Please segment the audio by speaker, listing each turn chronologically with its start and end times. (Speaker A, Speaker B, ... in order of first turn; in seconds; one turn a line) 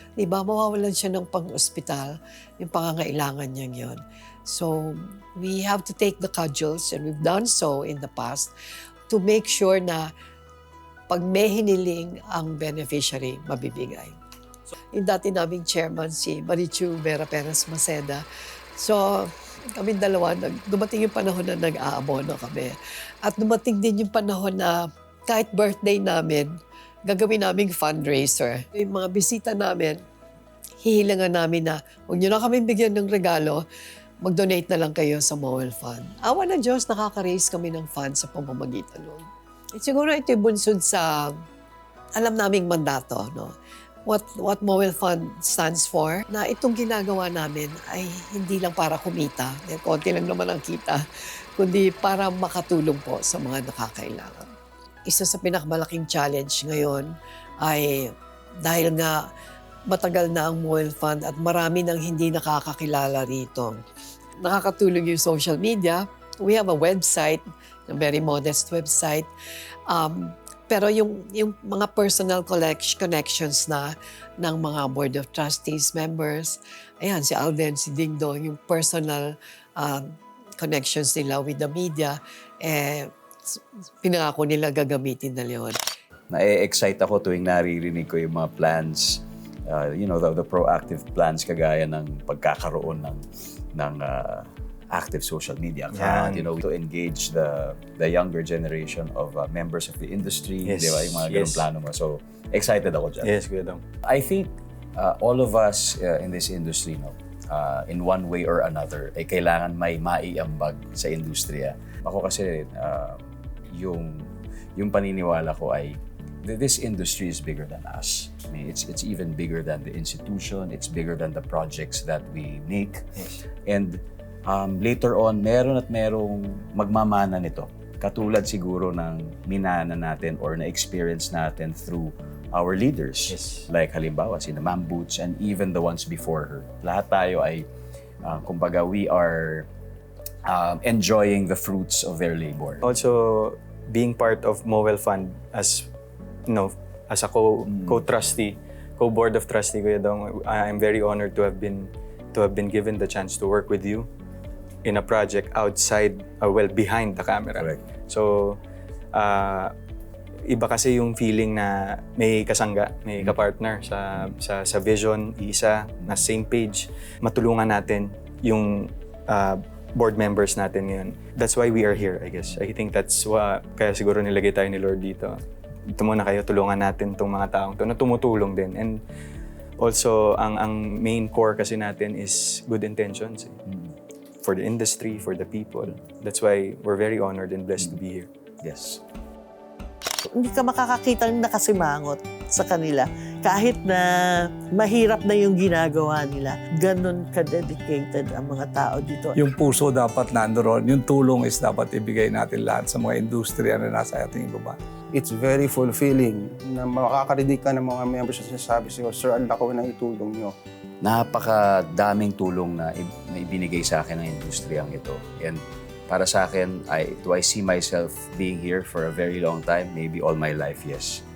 Speaker A: 0.2-8.5
Speaker A: 9.1-10.1
Speaker A: 11.1-14.2
Speaker A: 14.9-18.2
Speaker A: 18.8-30.0
Speaker A: 30.8-33.6
Speaker A: 34.2-41.3
Speaker A: 42.2-43.5
Speaker A: 44.1-51.0
Speaker A: 51.6-54.5
Speaker A: 55.1-57.1
Speaker A: 57.6-58.1
Speaker A: 58.6-59.2
Speaker A: 59.9-63.8
Speaker A: 64.4-69.3
Speaker A: 69.9-80.1
Speaker A: 80.6-85.8
Speaker B: 86.3-93.2
Speaker B: 93.8-103.3
Speaker C: 95.9-96.5
Speaker C: 100.7-101.7
Speaker C: 103.2-103.8
Speaker B: 104.0-123.0
Speaker B: 123.7-137.7
Speaker C: 133.3-133.7
Speaker B: 138.2-139.7
Speaker B: 140.5-142.8
Speaker C: 142.8-145.9
Speaker C: 146.5-154.1
Speaker C: 154.8-158.6
Speaker B: 157.6-157.8
Speaker C: 159.1-159.7
Speaker C: 160.5-175.4
Speaker C: 175.9-179.0
Speaker C: 179.8-183.6
Speaker B: 183.7-183.9
Speaker C: 184.4-188.3
Speaker B: 188.6-189.0
Speaker D: 190.3-199.4
Speaker E: 199.3-204.8
Speaker F: 205.2-210.5
Speaker B: 211.0-221.2